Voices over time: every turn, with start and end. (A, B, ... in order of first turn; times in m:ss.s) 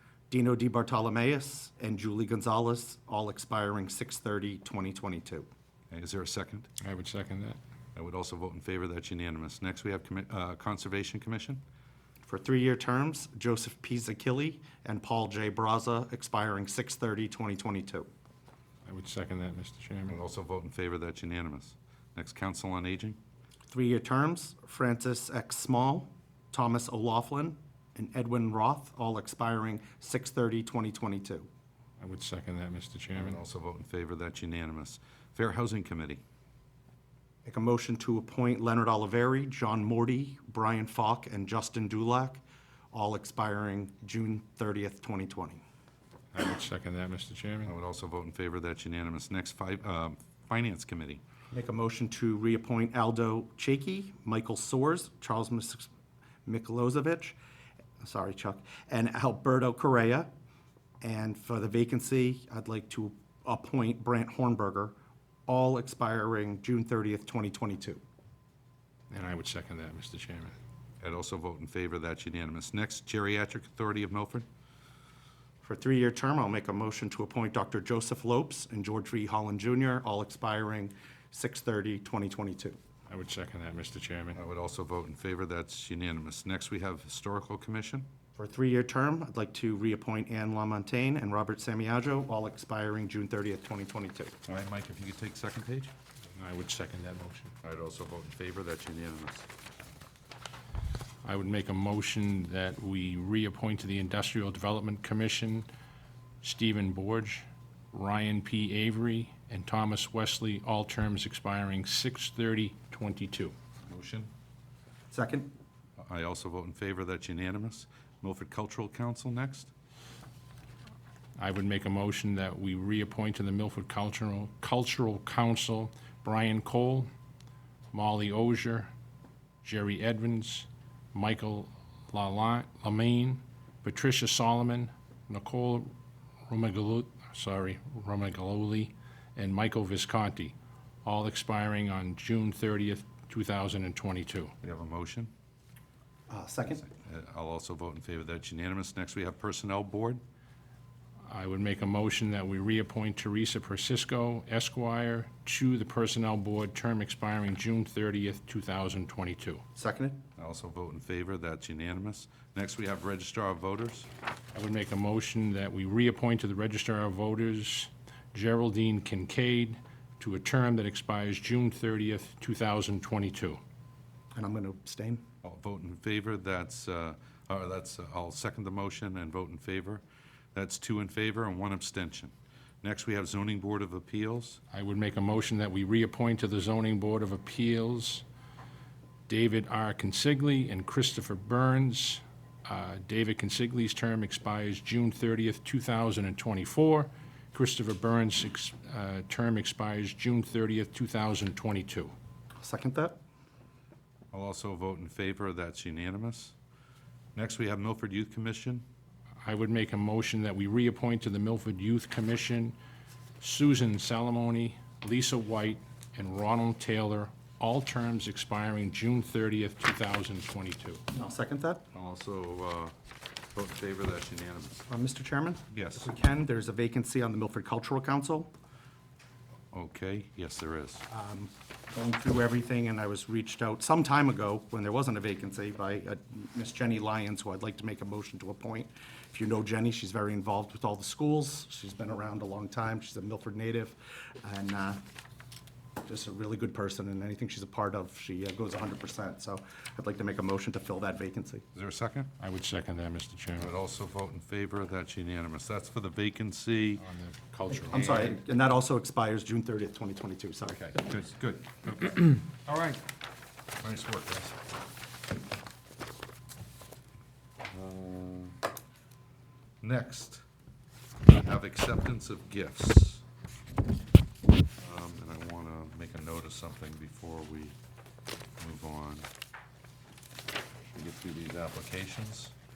0:00.3-0:05.5 A
0:05.9-0:06.7 B
0:06.8-0:07.6 C
0:07.9-0:11.6 B
0:12.3-0:18.1 A
0:18.8-0:20.2 C
0:20.1-0:23.2 B
0:23.7-0:31.5 A
0:32.0-0:33.4 C
0:33.1-0:36.2 B
0:37.4-0:42.4 A
0:42.9-0:45.6 A
0:46.3-0:47.7 C
0:47.6-0:51.2 B
0:51.5-0:55.9 A
0:56.4-0:57.4 A
0:58.0-1:00.3 A
1:01.0-1:04.9 A
1:05.5-1:08.0 A
1:09.1-1:10.5 C
1:11.0-1:14.4 B
1:15.6-1:22.8 A
1:23.1-1:24.4 C
1:24.3-1:28.1 B
1:28.4-1:34.4 A
1:34.4-1:35.9 B
1:36.3-1:37.5 C
1:37.6-1:39.5 B
1:41.2-1:45.7 C
1:46.4-1:53.5 C
1:53.8-1:54.3 B
1:55.1-1:55.5 A
1:56.0-1:59.7 B
2:01.4-2:07.1 C
2:07.9-2:08.9 C
2:09.6-2:15.9 C
2:16.5-2:24.5 C
2:24.6-2:25.3 B
2:26.3-2:26.9 A
2:26.8-2:30.2 B
2:31.3-2:39.6 C
2:39.8-2:40.2 A
2:40.4-2:44.1 B
2:44.5-2:53.6 C
2:54.3-2:55.2 A
2:55.4-3:00.0 B
3:00.5-3:04.6 B
3:04.7-3:08.2 C
3:09.3-3:22.1 C
3:22.6-3:23.2 A
3:24.3-3:26.5 B
3:27.3-3:28.8 B
3:29.4-3:32.8 C
3:33.4-3:41.0 C
3:41.1-3:41.9 A
3:41.9-3:42.9 B
3:43.5-3:44.9 B
3:44.9-3:48.5 A
3:45.7-3:46.1 B
3:49.7-3:51.0 B
3:51.1-4:05.0 A
4:06.0-4:11.6 A
4:11.7-4:12.3 B
4:12.4-4:13.7 C
4:13.6-4:17.0 B
4:17.0-4:18.1 C
4:17.9-4:18.4 B
4:17.9-4:21.0 A
4:20.9-4:23.0 B
4:23.8-4:24.6 B
4:27.7-4:28.6 B
4:29.8-4:30.4 B
4:31.2-4:33.2 B
4:34.8-4:37.8 B
4:38.6-4:39.3 B
4:40.9-4:42.5 B